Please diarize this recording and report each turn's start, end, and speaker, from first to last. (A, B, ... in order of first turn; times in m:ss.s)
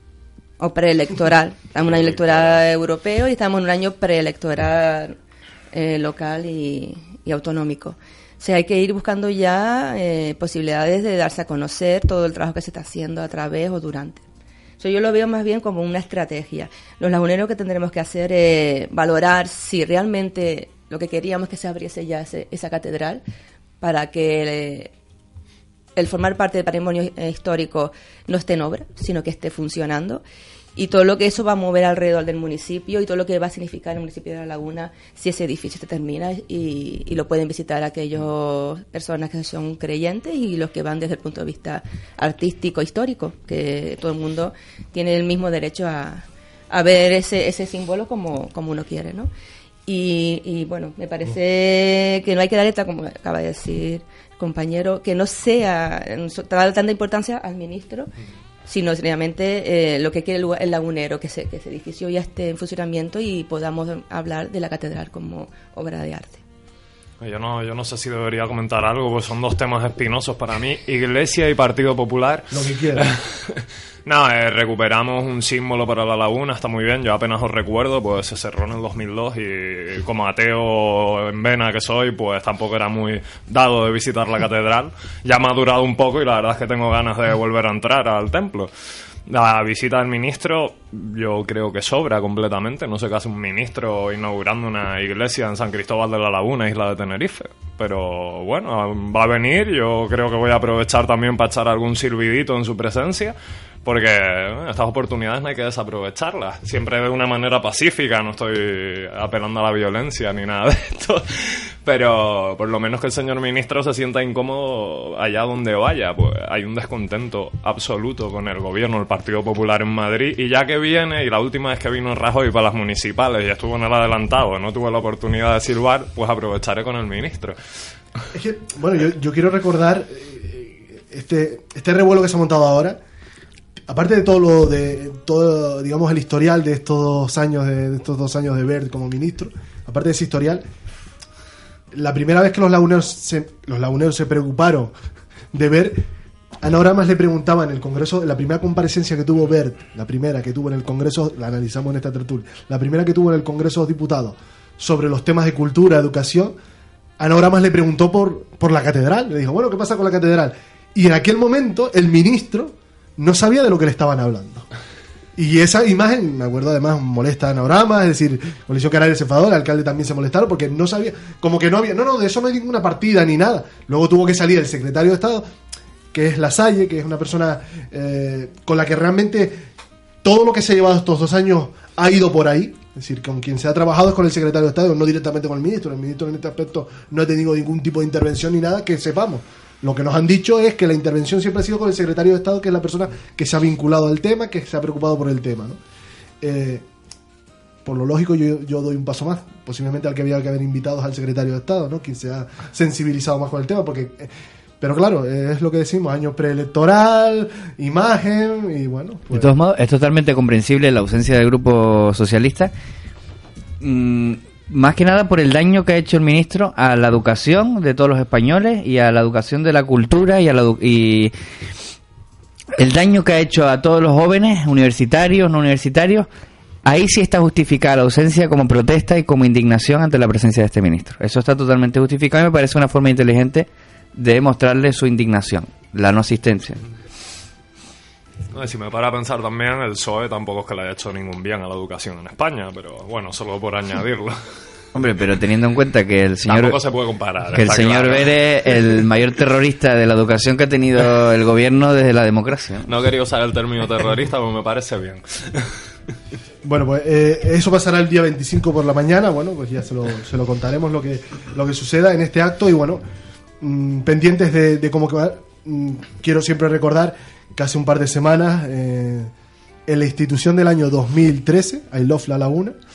0:00.6-0:05.1 A
0:05.7-0:14.2 A
0:14.8-0:23.2 A
0:23.8-0:24.9 A
0:26.0-0:30.2 A
0:30.8-0:49.3 A
0:49.9-0:58.1 A
0:58.7-1:06.4 A
1:07.2-1:28.7 B
1:12.5-1:13.1 C
1:29.2-2:07.6 B
2:08.3-2:13.0 C
2:13.9-2:20.6 C
2:21.9-2:24.9 C
2:25.5-2:26.0 C
2:26.6-2:36.6 C
2:37.2-2:44.7 C
2:45.4-2:55.4 C
2:56.1-2:59.7 C
3:00.2-3:15.8 C
3:16.4-3:16.8 C
3:17.8-3:29.5 C
3:29.3-3:32.7 D
3:33.8-3:41.3 D
3:42.8-3:46.3 D
3:46.8-3:56.8 D
3:58.5-4:04.4 B
4:04.9-4:06.8 D
4:06.4-4:08.8 B
4:07.5-4:12.9 D
4:12.9-4:15.7 B
4:16.6-4:23.0 C
4:23.6-4:29.3 C
4:29.9-4:32.8 C